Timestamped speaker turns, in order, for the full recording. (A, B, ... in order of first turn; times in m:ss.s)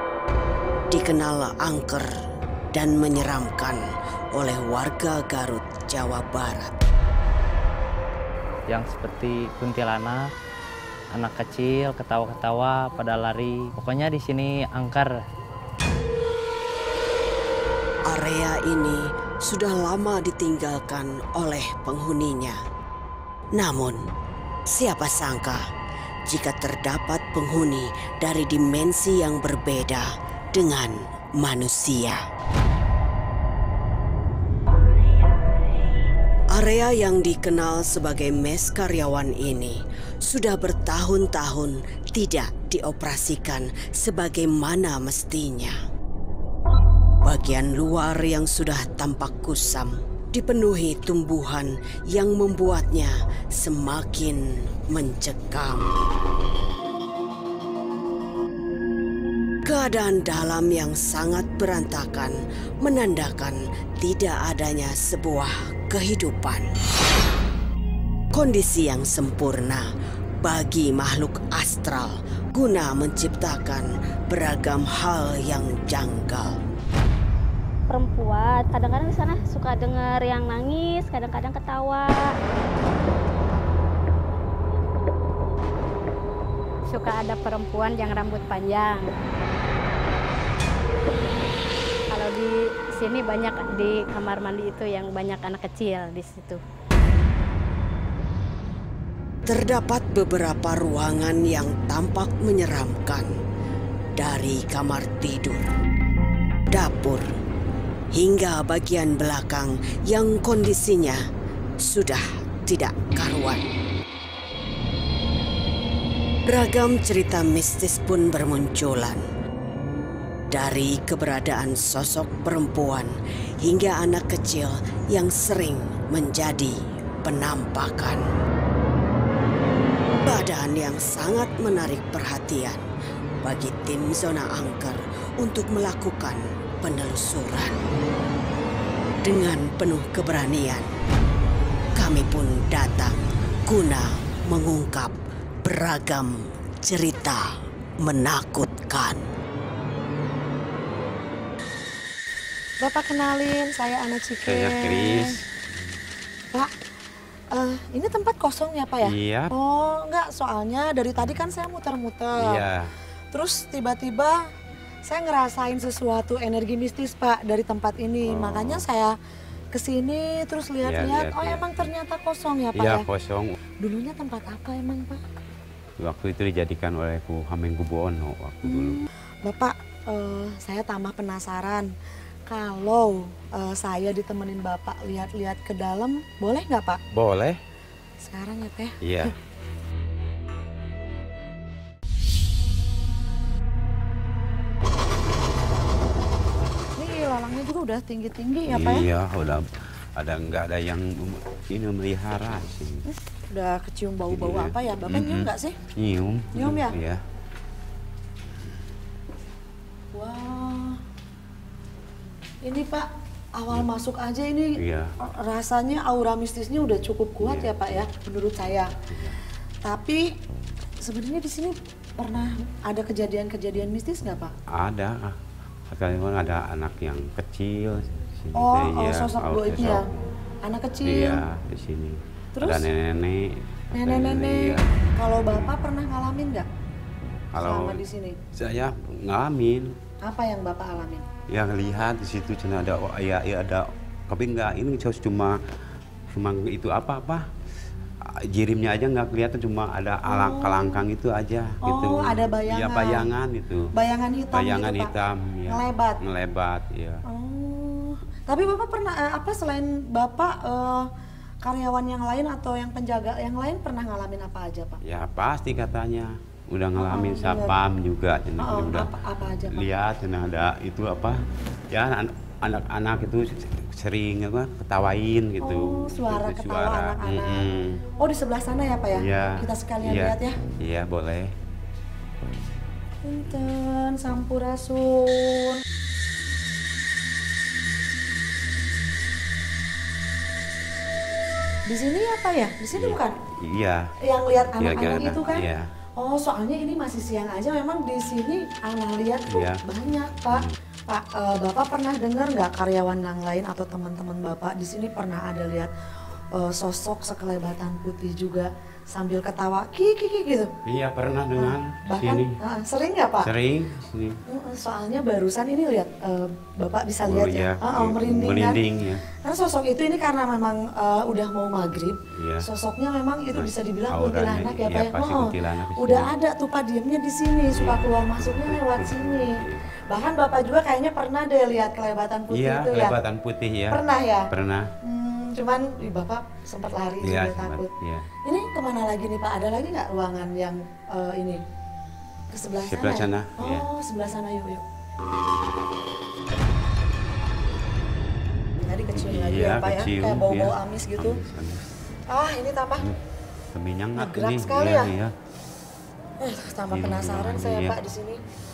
0:00.9-0:02.1 A
0:02.7-0:06.8 A
0:08.7-0:10.3 B
0:11.1-0:15.2 B
0:18.1-0:22.6 A
0:23.5-0:24.1 A
0:24.7-0:25.7 A
0:26.2-0:32.2 A
0:36.5-0:45.8 A
0:47.2-0:55.9 A
0:59.6-1:06.7 A
1:08.3-1:09.9 A
1:10.4-1:16.6 A
1:17.9-1:22.3 C
1:26.9-1:29.2 D
1:32.1-1:36.6 D
1:39.5-1:43.3 A
1:44.2-1:45.7 A
1:46.7-1:47.3 A
1:48.1-1:51.2 A
1:51.8-1:53.7 A
1:56.5-1:59.2 A
2:00.5-2:08.2 A
2:10.1-2:12.8 A
2:13.4-2:17.9 A
2:19.2-2:20.9 A
2:22.0-2:27.5 A
2:28.0-2:29.3 A
2:32.8-2:35.4 E
2:34.5-2:36.0 F
2:37.5-2:42.6 E
2:39.0-2:39.5 F
2:42.4-2:42.9 F
2:43.3-2:44.5 E
2:45.1-2:49.2 E
2:48.2-2:48.8 F
2:49.7-2:53.1 E
2:50.8-2:51.9 F
2:52.8-2:53.6 F
2:53.8-2:55.2 E
2:56.0-2:59.0 F
2:58.6-3:01.9 E
3:02.5-3:07.0 E
3:07.1-3:07.6 F
3:08.2-3:09.3 E
3:09.0-3:09.3 F
3:17.0-3:19.1 E
3:18.7-3:23.0 F
3:23.1-3:25.8 E
3:24.3-3:27.2 F
3:26.6-3:27.0 E
3:30.1-3:31.0 E
3:32.6-3:38.9 E
3:34.8-3:35.1 F
3:37.4-3:38.0 F
3:39.1-3:39.4 F
3:39.8-3:40.4 E
3:41.0-3:44.5 E
3:44.7-3:45.4 F
3:45.9-3:50.2 F
3:48.6-3:50.1 E
3:50.6-3:51.4 E
3:51.0-3:54.8 F
3:52.6-3:52.9 E
3:53.9-3:56.7 E
3:55.5-3:55.7 F
3:57.6-3:58.0 F
3:57.6-3:58.4 E
3:58.6-4:00.0 F
4:00.2-4:01.3 E
4:01.5-4:05.6 F
4:06.3-4:07.5 F
4:08.2-4:13.9 F
4:10.3-4:11.0 E
4:11.8-4:13.3 E
4:13.9-4:15.1 E
4:14.5-4:17.2 F
4:15.7-4:16.2 E
4:17.3-4:21.1 E
4:21.6-4:25.0 E
4:25.0-4:29.1 F
4:27.0-4:27.8 E
4:28.6-4:29.9 E
4:29.7-4:38.0 F
4:35.6-4:37.7 E
4:38.2-4:40.6 E
4:39.2-4:41.5 F
4:43.2-4:45.8 E
4:51.9-4:53.4 E
4:53.0-4:54.1 F
4:54.2-4:55.7 E
4:54.7-4:55.8 F
4:56.2-5:05.9 E
4:59.5-4:59.8 F
5:06.5-5:10.8 E
5:10.8-5:12.6 F
5:11.6-5:13.5 E
5:13.4-5:14.4 F
5:14.5-5:18.8 E
5:17.3-5:19.2 F
5:19.4-5:33.2 E
5:22.3-5:22.7 F
5:23.5-5:26.3 F
5:27.7-5:29.9 F
5:32.5-5:34.9 F
5:33.9-5:34.5 E
5:35.0-5:37.9 E
5:37.2-5:38.3 F
5:38.4-5:41.6 E
5:42.5-5:44.8 E
5:42.9-5:43.9 F
5:48.8-5:51.4 E
5:49.1-5:51.9 F
5:52.3-5:53.1 E
5:53.7-5:55.3 F
5:54.2-5:55.1 E
5:56.4-5:58.4 E
5:56.9-5:58.0 F